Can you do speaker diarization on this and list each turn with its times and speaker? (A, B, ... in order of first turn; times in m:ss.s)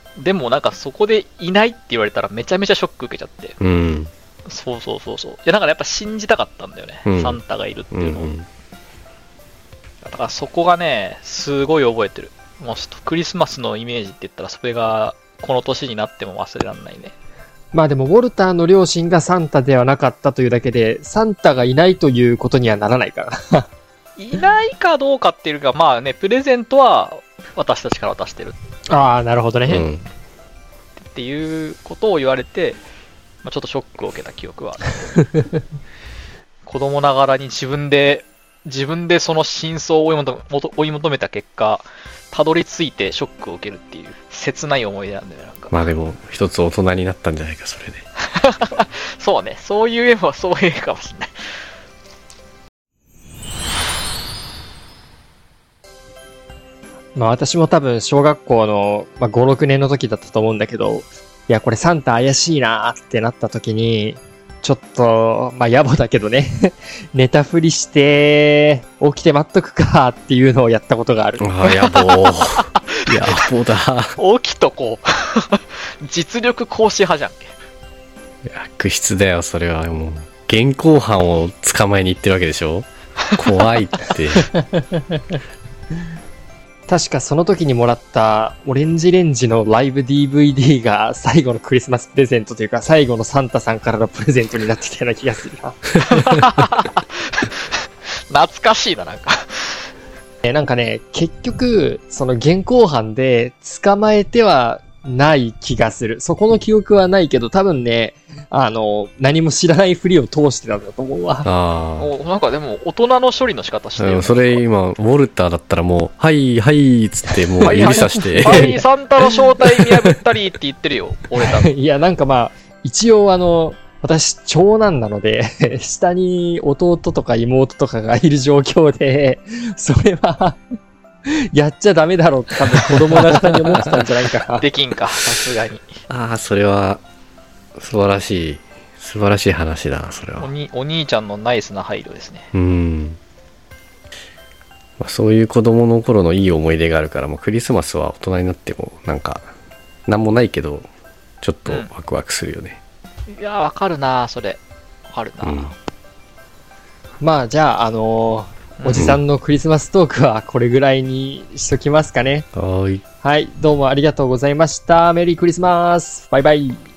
0:00.2-0:03.6 A
0:03.6-0:04.1 B
0:04.5-0:08.3 A
0:07.1-0:07.4 B
0:07.9-0:08.5 B
0:10.1-0:17.1 A
0:17.7-0:23.7 C
0:24.2-0:28.6 A
0:28.9-0:29.9 C
0:29.7-0:30.1 B
0:31.0-0:32.8 A
0:33.4-0:35.0 A
0:36.6-0:45.8 A
0:45.7-0:48.0 B
0:48.4-0:51.3 A
0:57.2-1:11.4 C
1:11.4-1:14.2 B
1:11.6-1:13.4 A
1:14.2-1:17.5 A
1:18.5-1:24.5 B
1:26.9-1:35.9 C
1:36.0-1:37.6 A
1:38.3-1:39.8 A
1:40.4-1:51.5 C
1:51.4-1:52.1 B
1:52.0-1:54.6 A
1:54.0-1:58.8 B
1:57.6-1:58.8 C
1:57.6-2:01.7 A
2:01.4-2:10.6 C
2:11.5-2:14.7 C
2:14.6-2:16.0 A
2:16.1-2:17.0 B
2:17.8-2:20.5 B
2:20.4-2:22.5 A
2:22.5-2:23.2 B
2:25.0-2:29.5 B
2:30.1-2:30.9 B
2:31.4-2:32.8 B
2:33.3-2:35.8 A
2:35.4-2:35.7 B
2:37.2-2:42.5 C
2:38.8-2:39.1 A
2:39.0-2:39.2 B
2:42.6-2:43.0 B
2:43.2-2:46.8 C